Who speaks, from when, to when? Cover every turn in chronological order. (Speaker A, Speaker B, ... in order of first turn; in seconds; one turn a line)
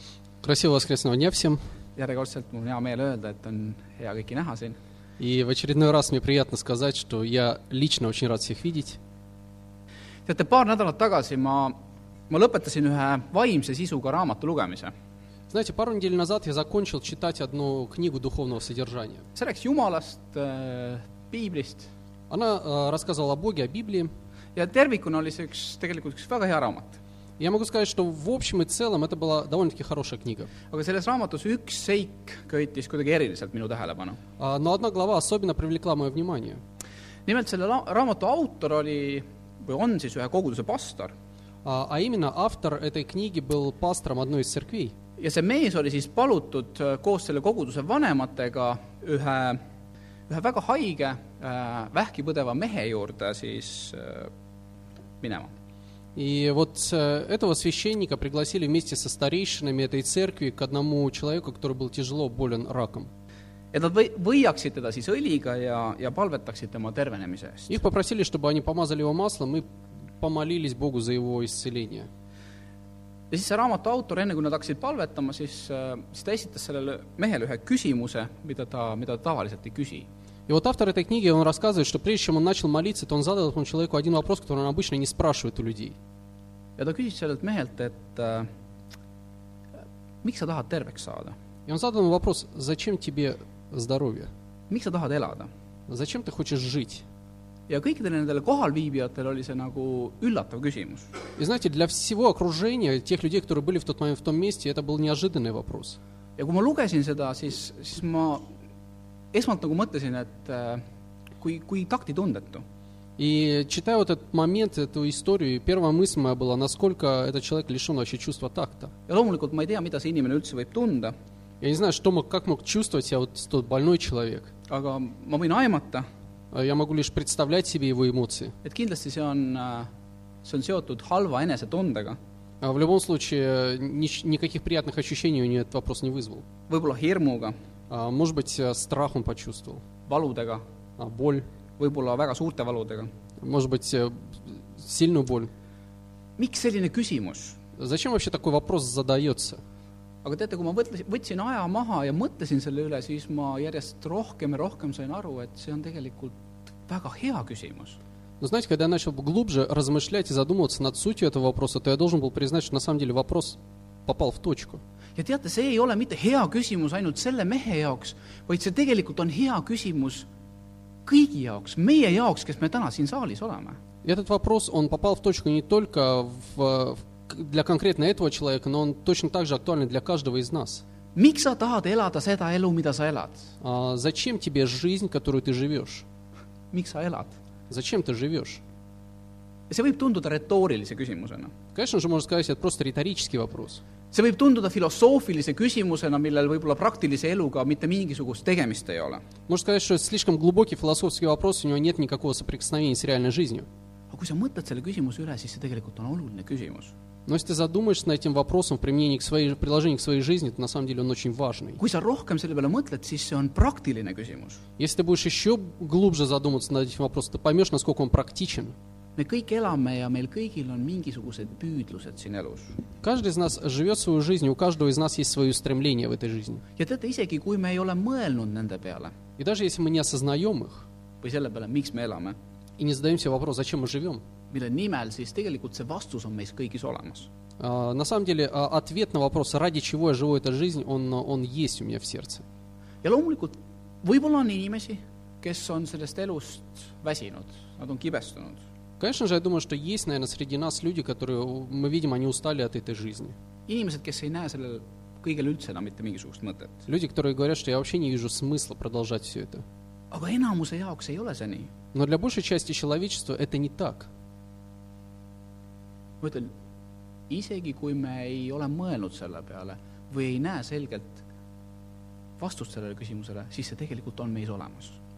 Speaker A: 0.4-1.6
Speaker B: 2.0-4.8
Speaker A: 5.2-9.0
Speaker B: 10.3-11.8
Speaker B: 12.3-14.9
Speaker A: 15.5-19.3
Speaker B: 19.4-21.9
Speaker A: 22.3-24.1
Speaker B: 24.6-27.0
Speaker A: 27.4-30.5
Speaker B: 30.7-34.2
Speaker A: 34.4-36.6
Speaker B: 37.3-41.1
Speaker A: 41.6-45.0
Speaker B: 45.2-49.6
Speaker B: 50.3-54.3
Speaker B: 55.2-55.5
Speaker A: 56.1-63.1
Speaker B: 63.7-67.8
Speaker A: 67.7-69.7
Speaker A: 70.2-72.1
Speaker B: 73.3-80.1
Speaker A: 80.5-86.0
Speaker B: 86.8-88.5
Speaker B: 90.2-91.3
Speaker A: 91.7-94.3
Speaker B: 94.7-95.5
Speaker A: 95.9-97.0
Speaker B: 97.7-101.1
Speaker A: 101.4-106.0
Speaker B: 106.4-108.5
Speaker B: 109.3-110.8
Speaker B: 111.4-112.6
Speaker A: 113.2-118.9
Speaker B: 119.1-121.1
Speaker A: 121.6-124.5
Speaker B: 124.7-126.1
Speaker A: 126.5-128.5
Speaker B: 128.6-129.9
Speaker B: 130.4-132.2
Speaker A: 132.6-136.4
Speaker B: 136.7-137.6
Speaker A: 137.9-139.8
Speaker B: 140.1-140.6
Speaker A: 141.0-141.5
Speaker B: 141.8-143.1
Speaker A: 143.4-145.5
Speaker B: 146.4-147.6
Speaker A: 147.8-149.6
Speaker B: 150.2-156.3
Speaker B: 156.9-158.0
Speaker A: 158.4-164.8
Speaker B: 165.2-170.3
Speaker B: 171.1-173.8
Speaker A: 174.0-180.8
Speaker B: 181.2-183.5
Speaker A: 183.6-186.1
Speaker B: 186.7-187.4
Speaker A: 187.7-188.6
Speaker B: 189.7-191.5
Speaker A: 191.8-193.8
Speaker B: 194.1-199.2
Speaker A: 199.5-203.7
Speaker B: 204.1-206.9
Speaker A: 207.3-211.8
Speaker B: 211.8-214.6
Speaker A: 214.8-218.8
Speaker B: 219.2-222.8
Speaker A: 223.0-226.6
Speaker B: 226.8-229.1
Speaker A: 229.4-230.9
Speaker B: 231.2-232.4
Speaker A: 232.8-234.2
Speaker B: 234.5-237.3
Speaker A: 237.6-242.4
Speaker B: 243.0-248.6
Speaker A: 249.0-253.3
Speaker B: 253.7-256.8
Speaker A: 256.9-259.6
Speaker B: 260.1-261.7
Speaker A: 261.9-264.1
Speaker B: 266.2-266.5
Speaker B: 267.3-271.2
Speaker B: 272.4-275.0